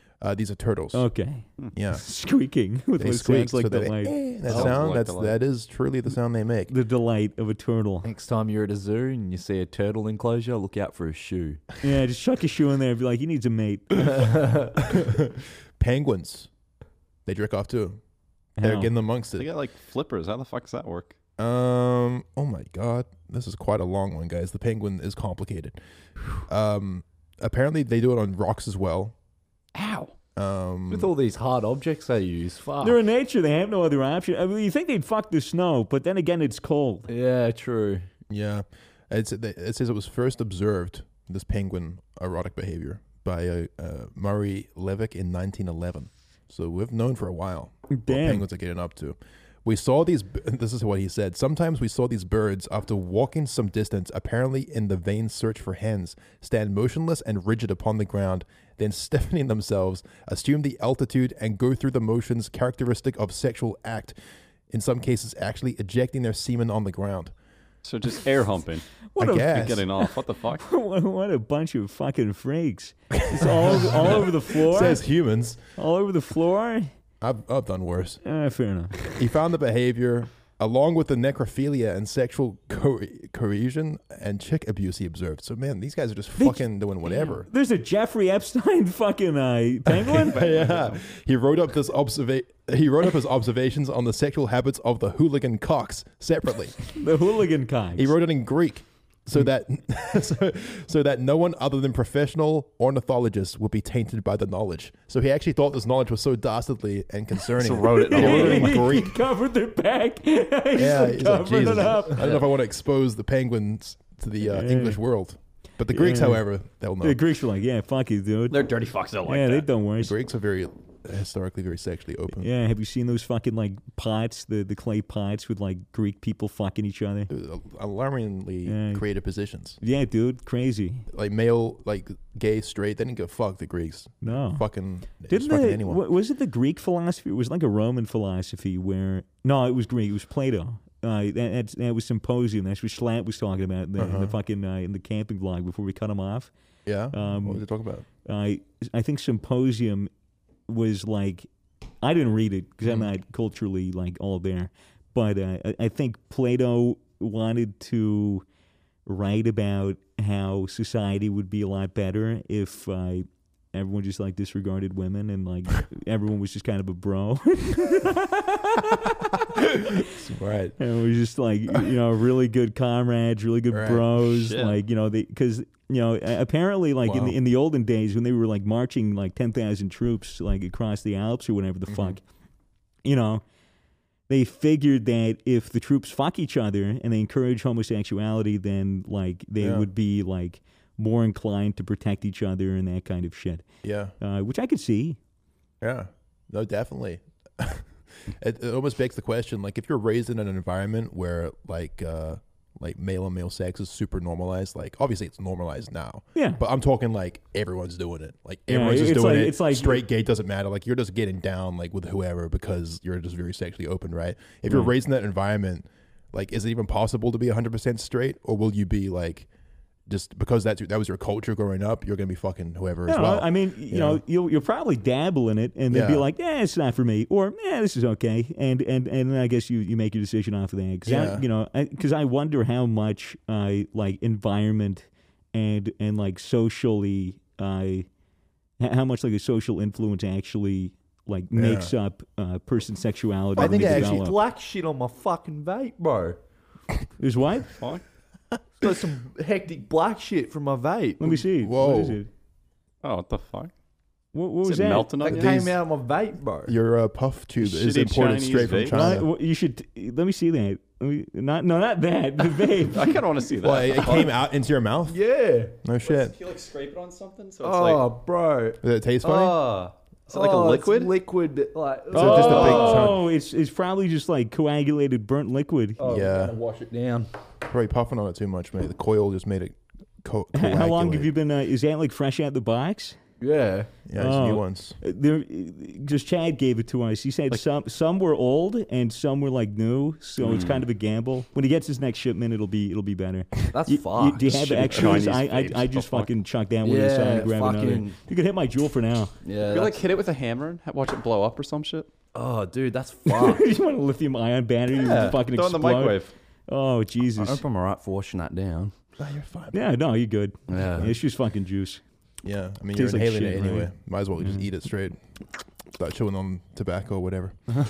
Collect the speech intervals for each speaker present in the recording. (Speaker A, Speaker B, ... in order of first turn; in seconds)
Speaker A: 0.2-1.1, 1.7-2.0, 3.0-6.7, 14.8-16.5, 17.2-18.0, 18.6-19.5, 21.4-25.8, 26.4-29.1, 30.4-31.1, 38.3-64.1, 64.7-67.3, 69.2-69.9, 73.1-75.6, 77.2-78.2, 79.1-87.5, 90.0-96.8, 98.0-109.2, 110.7-117.2, 120.0-122.5, 127.3-129.8, 131.1-136.0, 144.0-144.3, 146.8-148.1, 169.6-170.8, 173.7-174.1, 177.0-177.3, 181.9-182.2, 189.6-189.9, 193.8-194.1, 195.8-219.5, 220.1-224.2, 225.9-226.2, 231.0-231.4, 241.6-241.9, 243.6-244.2, 251.6-252.2, 255.3-255.8, 256.6-259.3, 263.6-265.2, 265.8-266.3, 268.8-269.6, 272.1-273.2, 276.0-276.6, 277.6-281.3, 284.1-285.0, 309.2-309.8, 312.4-315.2, 315.9-317.6
Speaker B: 0.9-4.1, 6.7-8.1, 11.8-14.3, 18.6-18.9, 32.8-37.1, 47.9-48.5, 69.1-75.0, 75.8-76.9, 78.2-79.1, 86.4-90.4, 96.9-98.1, 108.0-112.3, 114.4-115.0, 115.9-116.4, 117.0-118.7, 119.2-120.1, 122.3-127.3, 128.7-129.0, 129.8-131.1, 134.2-134.6, 135.3-146.5, 147.1-147.6, 148.2-150.1, 150.7-151.5, 152.0-158.4, 159.0-170.0, 170.8-182.2, 183.0-183.4, 184.3-193.6, 194.2-195.2, 206.3-206.6, 208.7-210.0, 223.1-238.1, 238.8-244.4, 247.2-247.7, 251.2-252.3, 254.3-255.2, 258.9-263.2, 272.1-276.0, 280.5-283.2, 284.2-299.3, 303.2-307.6, 309.7-312.0, 312.9-314.6
Speaker C: 4.5-5.4, 19.4-21.1, 29.7-30.1, 67.8-70.6, 90.4-91.0, 107.5-109.0, 118.5-119.7, 174.3-174.7, 247.7-248.0, 253.0-253.7, 254.6-255.6, 257.6-259.1, 262.9-264.3, 266.0-268.1, 270.3-271.1, 290.4-290.8, 294.5-296.3, 299.6-302.1, 304.9-306.3
Speaker D: 4.5-4.7, 8.0-11.6, 14.2-14.7, 30.9-33.0, 37.1-38.1, 243.6-246.4, 248.8-251.4, 255.2-256.7, 265.1-265.8, 267.6-273.2, 276.0-277.3, 283.4-283.9, 293.7-295.3, 296.8-298.2, 299.4-300.0, 302.3-303.7, 307.4-308.9, 310.7-311.1